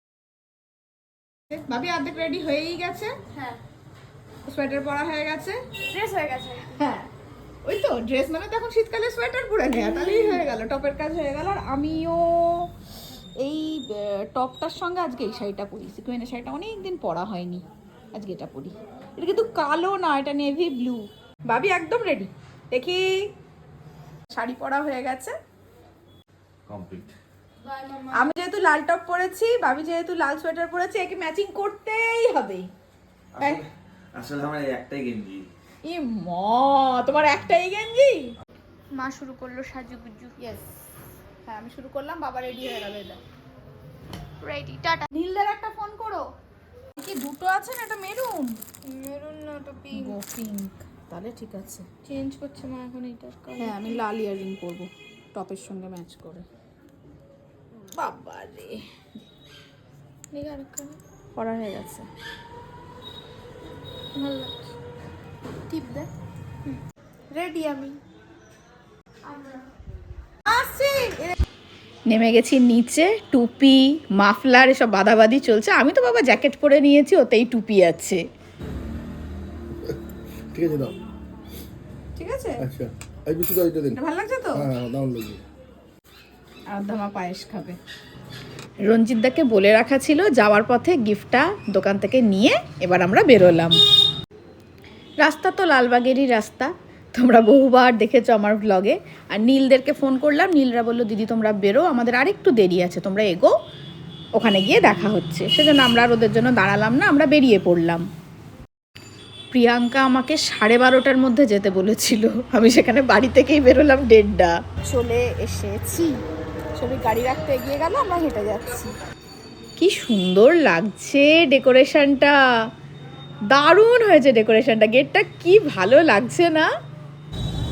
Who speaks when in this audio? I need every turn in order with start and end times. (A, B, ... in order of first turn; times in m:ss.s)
0:01.5-0:03.3 A
0:04.4-0:07.0 A
0:07.6-0:12.6 A
0:13.4-0:23.0 A
0:24.3-0:25.3 A
0:26.7-0:27.2 B
0:28.1-0:32.6 A
0:33.4-0:35.5 B
0:35.9-0:38.2 A
0:38.9-0:40.2 C
0:40.4-0:40.6 A
0:41.5-0:43.2 A
0:44.4-0:44.9 C
0:44.4-0:46.3 A
0:47.0-0:48.6 A
0:48.9-0:50.2 C
0:49.9-0:52.2 A
0:52.0-0:54.0 C
0:53.5-0:56.4 A
0:57.8-0:58.8 A
1:00.3-1:02.1 A
1:04.2-1:04.5 A
1:05.7-1:06.1 A
1:07.3-1:07.9 A
1:10.5-1:11.3 A
1:10.7-1:11.1 C
1:12.1-1:18.2 A
1:20.5-1:21.0 D
1:22.2-1:22.6 A
1:22.6-1:24.0 D
1:23.9-1:24.6 A
1:24.6-1:25.4 D
1:26.7-1:27.8 A
1:28.9-1:33.8 A
1:35.2-1:43.5 A
1:44.4-1:48.0 A
1:49.5-1:56.2 A
1:56.8-1:58.9 A
1:59.8-2:02.3 A
2:03.5-2:06.7 A